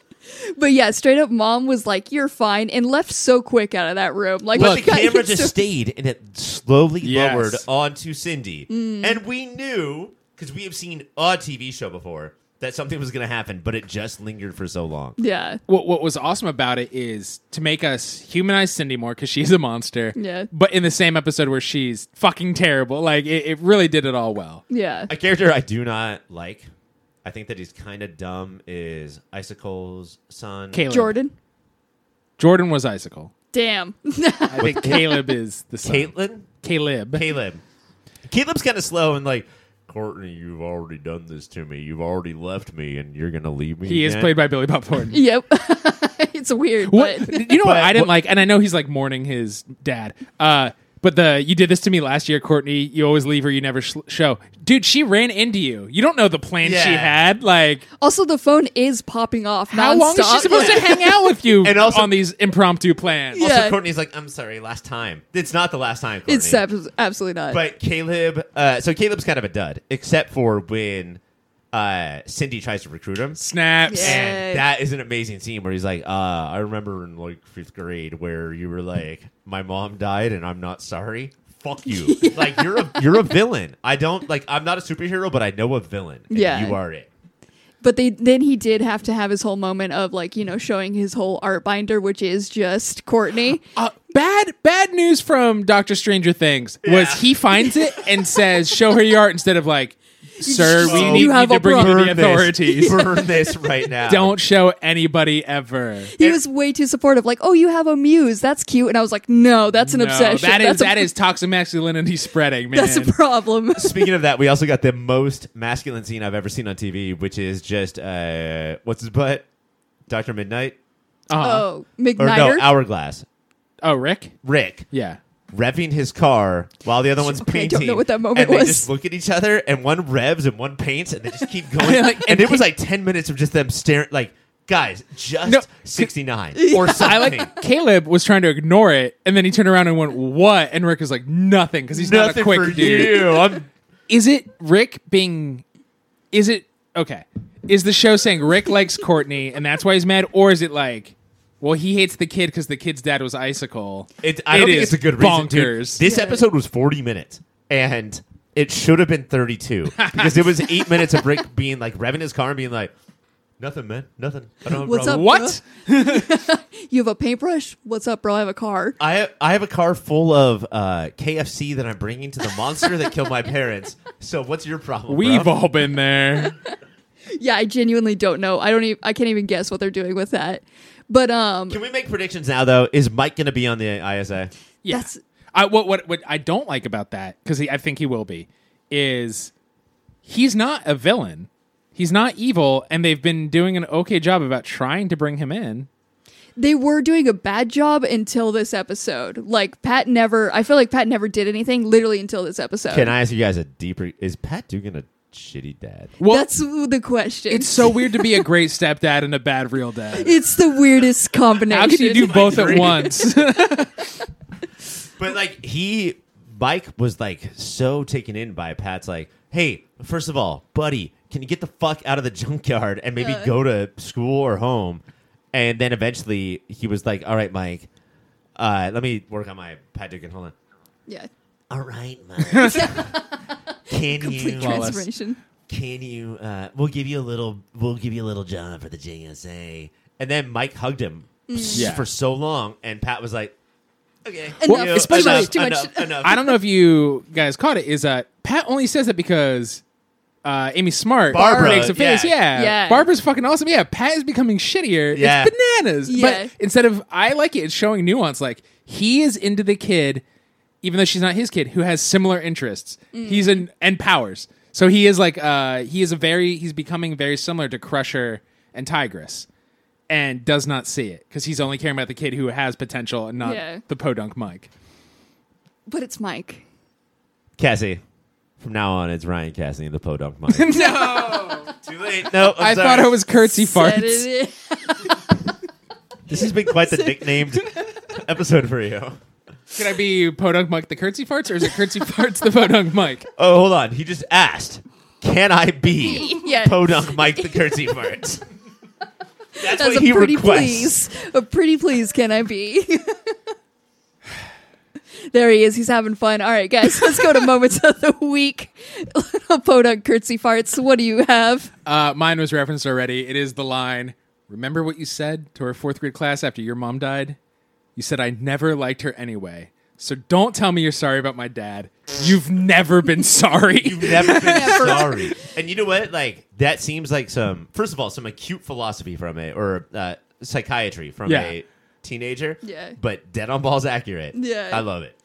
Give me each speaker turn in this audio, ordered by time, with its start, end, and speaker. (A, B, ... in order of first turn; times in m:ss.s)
0:00.4-0:05.6 A
0:04.5-0:15.2 B
0:04.6-0:04.8 C
0:07.0-0:07.6 C
0:08.7-0:09.2 A
0:15.2-0:15.6 A
0:15.7-0:24.6 C
0:20.1-0:20.5 A
0:24.7-0:25.1 A
0:25.1-0:26.7 B
0:27.2-0:30.8 B
0:30.7-0:31.2 C
0:30.9-0:31.3 A
0:32.4-0:33.3 C
0:33.5-0:35.1 A
0:34.5-0:37.3 C
0:34.6-0:35.2 B
0:35.8-0:36.5 B
0:37.1-0:37.6 B
0:38.3-0:44.3 B
0:43.8-0:45.2 C
0:45.1-0:47.5 A
0:46.9-0:57.8 C
0:47.5-0:48.1 B
0:56.6-0:57.2 B
0:58.0-1:01.0 A
0:59.7-1:03.4 C
1:00.4-1:01.0 B
1:01.6-1:02.2 B
1:03.3-1:03.8 A
1:03.3-1:06.6 B
1:06.2-1:07.6 A
1:07.5-1:11.2 B
1:11.7-1:27.1 B
1:13.4-1:14.3 C
1:13.9-1:14.6 A
1:21.9-1:23.0 A
1:26.3-1:26.8 A
1:27.8-1:33.6 A
1:33.8-1:43.0 C
1:36.8-1:37.2 B
1:40.4-1:43.2 A
1:40.8-1:44.3 B
1:44.1-1:46.1 C
1:46.2-1:51.1 A
1:49.8-1:53.1 C
1:52.7-1:54.1 A
1:53.8-1:59.4 B
2:00.1-2:00.8 B
2:01.3-2:01.7 C
2:01.4-2:02.7 A
2:02.2-2:03.2 B
2:03.8-2:04.3 C
2:04.4-2:04.9 B
2:04.9-2:05.2 C
2:05.5-2:17.5 B
2:07.2-2:08.9 A
2:11.8-2:12.7 C
2:15.4-2:16.1 C
2:16.5-2:17.4 A
2:16.7-2:23.6 C
2:21.9-2:23.7 B
2:24.1-2:25.6 C
2:26.3-2:36.0 C
2:34.2-2:42.9 B
2:36.0-2:36.4 A
2:40.0-2:40.7 C
2:43.6-2:45.4 B
2:44.8-2:49.0 A
2:45.0-2:46.4 C
2:49.0-2:55.6 B
2:55.1-2:56.6 C
2:56.4-2:56.7 A
2:57.3-3:01.8 A
3:01.7-3:04.5 B
3:04.8-3:09.5 C
3:04.9-3:05.2 A
3:10.2-3:15.9 C
3:16.6-3:23.1 A
3:22.9-3:26.1 B
3:26.2-3:26.5 C
3:26.3-3:28.2 A
3:27.5-3:30.4 C
3:30.2-3:32.4 A
3:31.7-3:34.1 C
3:32.1-3:33.2 B
3:35.2-3:45.0 B
3:43.2-3:43.5 A
3:45.5-3:47.9 B
3:48.6-3:50.5 B
3:51.7-3:53.1 B
3:52.5-3:52.9 C
3:52.6-3:55.4 A
3:53.9-3:55.0 B
3:54.5-3:55.0 C
3:55.7-4:03.5 B
4:01.5-4:01.9 A
4:01.8-4:02.0 C
4:04.2-4:06.4 B
4:04.6-4:06.5 A
4:04.6-4:05.5 C
4:06.2-4:09.8 C
4:10.4-4:20.2 C
4:11.3-4:12.4 B
4:11.3-4:12.0 A
4:12.5-4:13.1 A
4:15.1-4:15.5 B
4:16.1-4:16.5 A
4:20.8-4:29.4 C
4:23.1-4:23.6 A
4:30.1-4:34.7 C
4:33.4-4:33.8 A
4:35.9-4:36.6 A
4:37.6-4:38.0 B
4:38.6-4:40.9 B
4:40.5-4:41.7 C
4:40.7-4:41.7 A
4:41.8-4:43.2 B
4:42.4-4:44.3 C
4:43.4-4:45.3 A
4:46.3-4:49.2 B
4:49.7-4:53.3 C
4:53.4-4:58.4 B
4:56.0-4:57.5 A
4:59.6-5:03.4 A
4:59.6-5:00.9 B
5:05.3-5:11.7 A
5:11.8-5:17.4 C
5:18.0-5:25.0 C
5:23.8-5:35.1 B
5:24.1-5:25.4 A
5:31.2-5:31.6 C
5:32.6-5:33.0 A
5:34.3-5:34.9 A